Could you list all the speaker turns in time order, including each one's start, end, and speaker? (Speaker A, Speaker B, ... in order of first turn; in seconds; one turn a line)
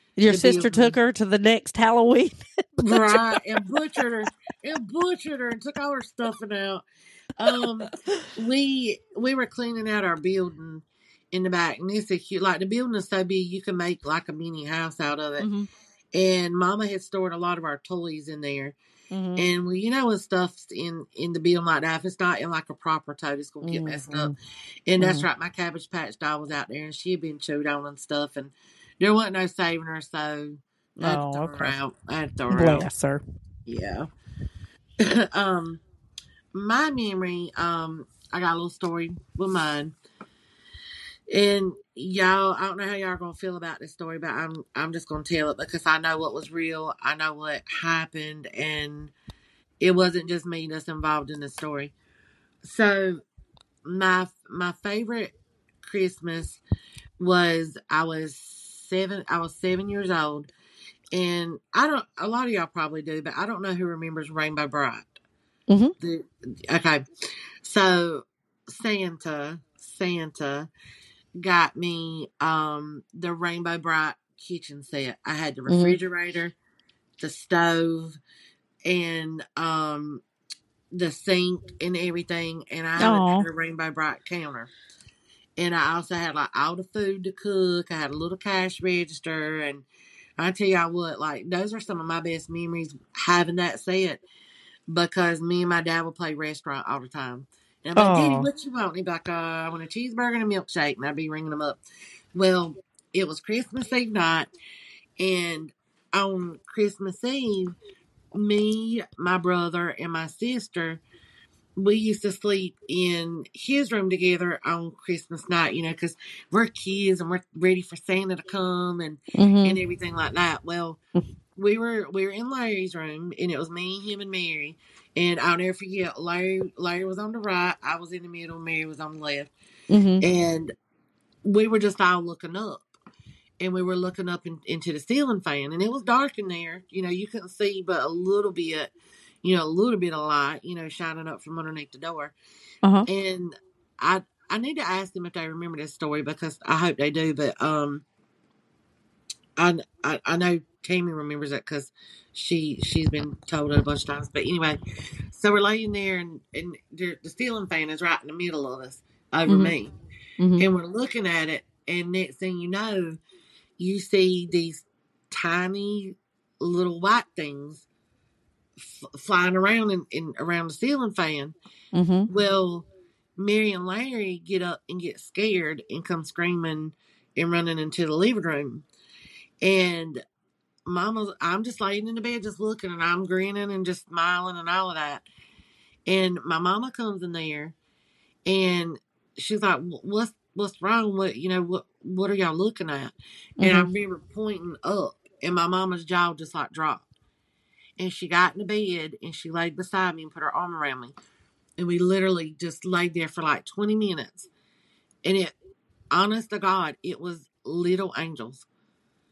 Speaker A: 0.2-3.6
Speaker B: 0.3-1.0
Speaker B: 2.8-6.8
Speaker B: 7.4-15.5
Speaker A: 15.4-15.7
Speaker B: 16.1-18.8
Speaker A: 19.1-19.5
Speaker B: 19.4-24.3
Speaker A: 23.6-24.3
Speaker B: 24.9-32.9
Speaker A: 25.0-25.3
Speaker A: 31.0-31.8
Speaker A: 32.5-33.2
Speaker B: 33.7-34.1
Speaker B: 35.0-35.8
Speaker B: 36.5-39.9
Speaker B: 41.3-49.1
Speaker B: 49.8-51.9
Speaker B: 52.6-53.2
Speaker B: 53.9-56.6
Speaker B: 57.2-60.5
Speaker B: 61.1-65.2
Speaker B: 66.0-67.0
Speaker B: 67.6-70.7
Speaker B: 71.4-76.5
Speaker A: 75.7-76.0
Speaker B: 77.2-78.2
Speaker B: 78.9-80.2
Speaker B: 80.9-84.7
Speaker A: 83.0-83.5
Speaker B: 85.6-89.8
Speaker B: 90.4-94.2
Speaker B: 94.9-101.8
Speaker A: 98.0-98.5
Speaker B: 102.3-104.5
Speaker B: 105.2-107.8
Speaker B: 108.3-111.0
Speaker B: 111.8-121.0
Speaker A: 119.4-119.8
Speaker B: 121.6-129.5
Speaker A: 129.9-130.2
Speaker B: 130.2-130.7
Speaker B: 131.4-132.9
Speaker B: 133.6-138.9
Speaker B: 139.4-142.3
Speaker B: 143.1-148.0
Speaker B: 149.6-154.8
Speaker B: 155.3-159.9
Speaker A: 159.5-159.7
Speaker A: 160.4-160.7
Speaker B: 160.6-163.2
Speaker B: 163.8-167.8
Speaker B: 168.8-171.6
Speaker A: 171.9-172.3
Speaker B: 172.3-178.8
Speaker B: 179.6-180.2
Speaker B: 180.9-185.2
Speaker B: 186.1-187.8
Speaker B: 188.5-197.1
Speaker A: 193.6-193.9
Speaker B: 198.0-201.1
Speaker B: 201.8-204.5
Speaker B: 205.2-205.6
Speaker B: 206.1-208.7